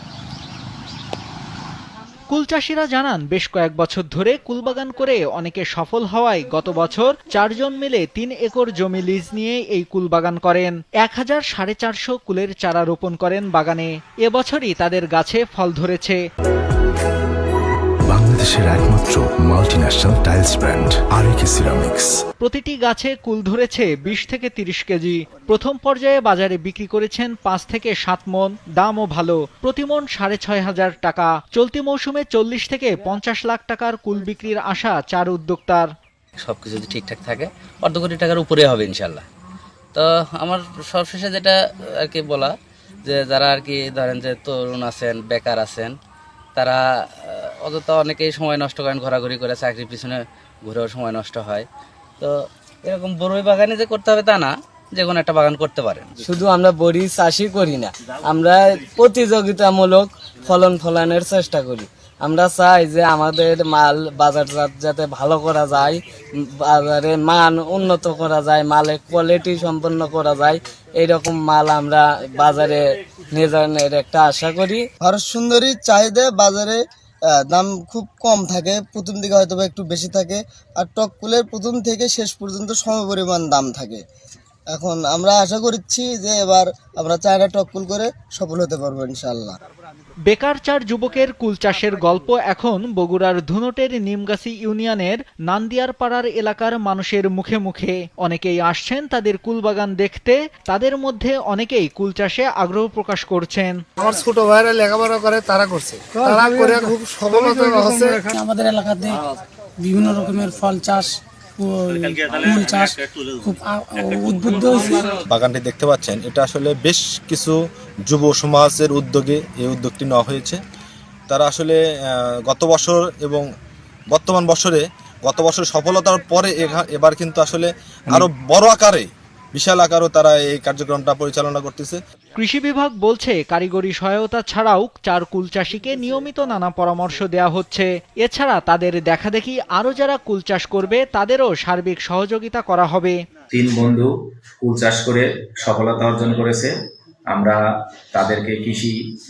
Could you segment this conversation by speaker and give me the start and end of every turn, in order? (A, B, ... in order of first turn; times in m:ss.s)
0:02.3-0:16.2 A
0:18.0-0:22.2 B
0:22.4-0:35.9 A
0:36.4-0:39.2 C
0:39.9-0:42.5 C
0:43.0-0:45.9 C
0:46.6-0:51.7 C
0:52.8-0:56.2 C
0:56.2-1:06.0 D
1:06.6-1:12.8 D
1:13.3-1:14.8 D
1:15.0-1:16.8 E
1:17.3-1:24.0 E
1:24.7-1:29.6 E
1:30.3-1:43.8 A
1:44.0-1:48.3 F
1:48.3-1:49.3 G
1:49.8-1:55.2 G
1:55.3-1:57.6 H
1:58.1-2:00.6 H
2:01.3-2:03.4 H
2:04.1-2:12.0 H
2:12.4-2:23.2 A
2:23.5-2:24.1 I
2:24.6-2:26.7 I
2:27.3-2:29.0 I